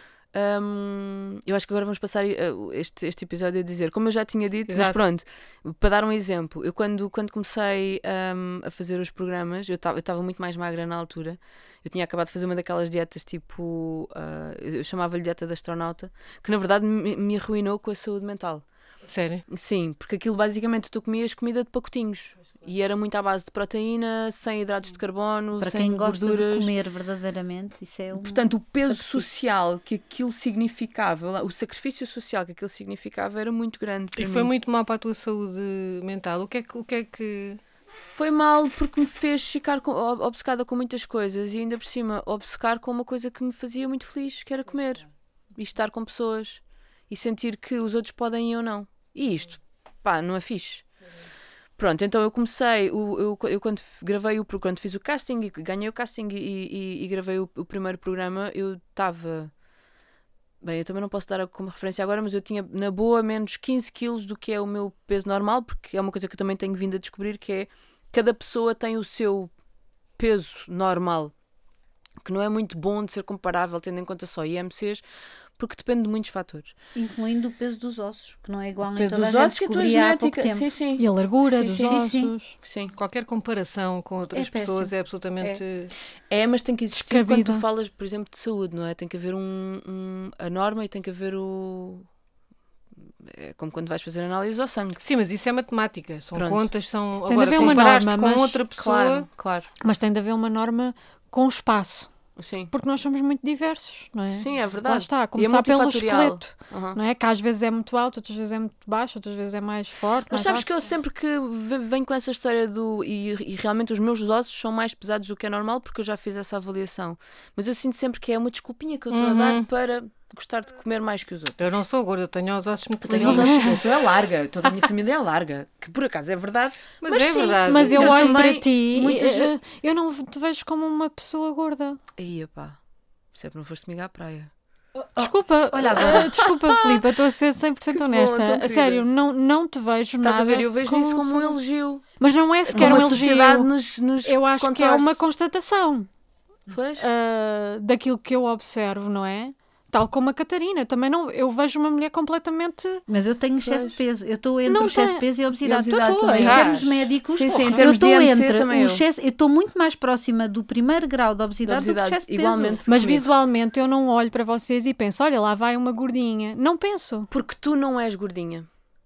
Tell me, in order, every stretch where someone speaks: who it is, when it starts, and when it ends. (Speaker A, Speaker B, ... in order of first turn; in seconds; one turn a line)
Speaker A: 0.3-18.6
Speaker B: 4.7-5.0
Speaker B: 19.1-19.4
Speaker A: 19.5-26.7
Speaker C: 25.6-29.3
Speaker A: 28.1-34.5
Speaker B: 34.2-37.6
Speaker A: 37.9-50.9
Speaker A: 51.8-59.5
Speaker A: 60.6-69.5
Speaker A: 70.2-71.3
Speaker A: 72.2-75.0
Speaker A: 75.6-76.7
Speaker C: 77.0-80.6
Speaker A: 78.9-82.0
Speaker D: 81.0-82.5
Speaker C: 81.8-82.3
Speaker A: 82.6-83.0
Speaker B: 83.0-85.9
Speaker C: 84.3-84.9
Speaker A: 86.3-92.1
Speaker D: 86.9-87.6
Speaker A: 93.2-95.0
Speaker B: 95.0-99.3
Speaker A: 96.3-96.7
Speaker D: 97.3-98.6
Speaker A: 97.4-97.8
Speaker A: 98.8-99.7
Speaker D: 99.8-102.1
Speaker A: 102.4-102.7
Speaker D: 102.7-110.7
Speaker A: 104.3-107.0
Speaker A: 110.3-121.6
Speaker B: 119.1-119.7
Speaker B: 121.6-123.7
Speaker A: 123.0-129.6
Speaker D: 123.2-123.8
Speaker B: 127.0-128.4
Speaker D: 127.7-132.0
Speaker A: 132.2-132.8
Speaker A: 133.3-134.5
Speaker C: 135.2-136.3
Speaker D: 135.2-141.6
Speaker A: 136.0-137.0
Speaker A: 137.9-139.1
Speaker A: 140.2-142.1
Speaker D: 142.2-143.7
Speaker A: 142.7-145.2
Speaker D: 144.2-146.1
Speaker A: 146.7-147.1
Speaker D: 147.0-153.0
Speaker C: 153.1-162.8
Speaker A: 153.6-154.0
Speaker D: 154.7-155.2
Speaker A: 155.6-156.7
Speaker B: 156.4-157.8
Speaker A: 157.3-159.0
Speaker A: 161.7-163.3
Speaker D: 162.9-167.3
Speaker A: 167.3-168.7